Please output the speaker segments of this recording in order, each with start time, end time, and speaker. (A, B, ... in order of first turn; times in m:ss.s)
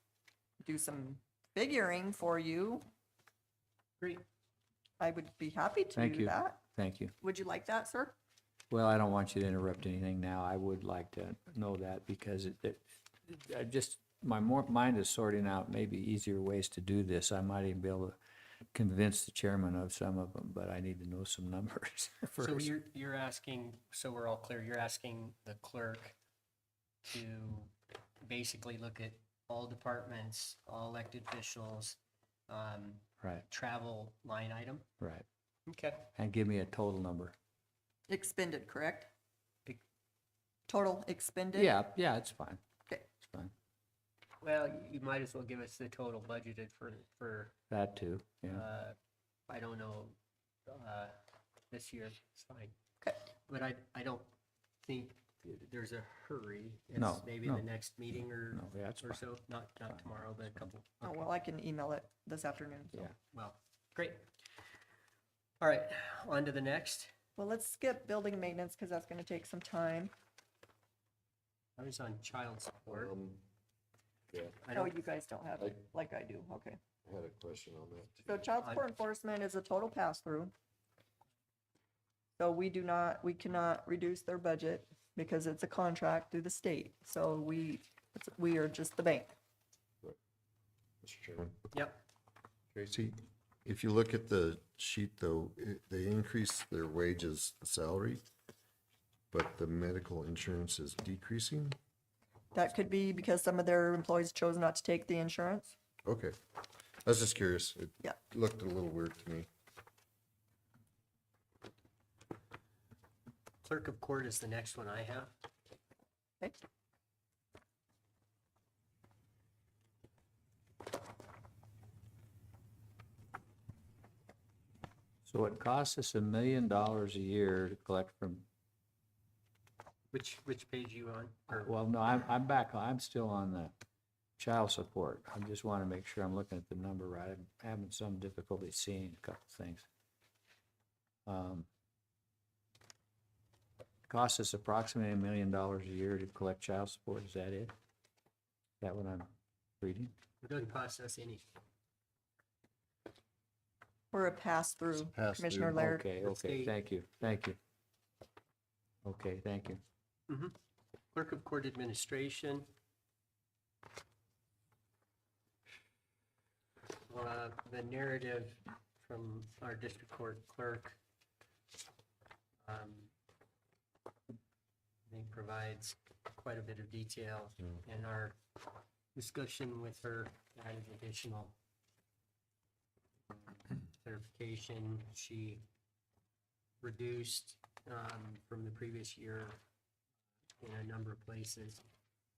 0:00.6-0:02.9 A
0:05.0-0:06.6 A
0:06.0-0:07.1 B
0:07.2-0:08.2 A
0:08.7-0:18.2 B
0:18.7-0:22.7 B
0:22.4-0:26.2 C
0:27.0-0:27.7 C
0:28.2-0:34.9 C
0:35.0-0:35.2 B
0:35.7-0:36.1 C
0:36.2-0:37.4 B
0:38.1-0:39.1 A
0:40.7-0:41.7 A
0:41.5-0:42.6 B
0:43.3-0:43.5 B
0:44.4-0:47.5 C
0:47.7-0:48.6 B
0:48.5-0:49.0 C
0:49.5-0:50.2 C
0:50.7-0:51.2 C
0:51.7-0:52.8 C
0:53.5-0:54.3 C
0:54.8-1:01.3 C
0:57.0-0:57.7 B
0:58.5-0:59.3 B
0:59.9-1:00.4 B
1:01.0-1:03.1 A
1:03.3-1:04.3 C
1:05.6-1:07.1 C
1:07.4-1:10.1 A
1:11.8-1:13.1 C
1:12.9-1:13.4 D
1:14.3-1:14.6 D
1:14.6-1:15.0 C
1:14.7-1:16.8 A
1:17.0-1:18.5 D
1:18.3-1:20.5 A
1:22.4-1:29.3 A
1:31.0-1:31.6 D
1:31.7-1:32.0 C
1:32.7-1:38.2 D
1:39.3-1:41.8 D
1:42.5-1:45.8 A
1:46.0-1:46.4 D
1:47.0-1:49.5 D
1:53.6-1:55.3 C
2:05.3-2:08.5 B
2:10.1-2:11.7 C
2:11.5-2:13.8 B
2:14.4-2:19.9 B
2:21.3-2:21.7 B
2:24.1-2:27.8 B
2:28.8-2:30.1 B
2:30.4-2:31.5 C
2:34.1-2:36.1 A
2:35.1-2:35.8 D
2:35.7-2:37.6 B
2:36.2-2:36.8 C
2:39.0-2:39.8 B
2:40.3-2:40.6 C
2:41.1-2:42.7 C
2:47.1-2:51.0 C
2:52.6-2:53.1 C
2:55.1-2:58.4 C
2:59.1-3:01.6 C
3:03.9-3:05.6 C
3:06.8-3:09.6 C
3:10.6-3:11.8 C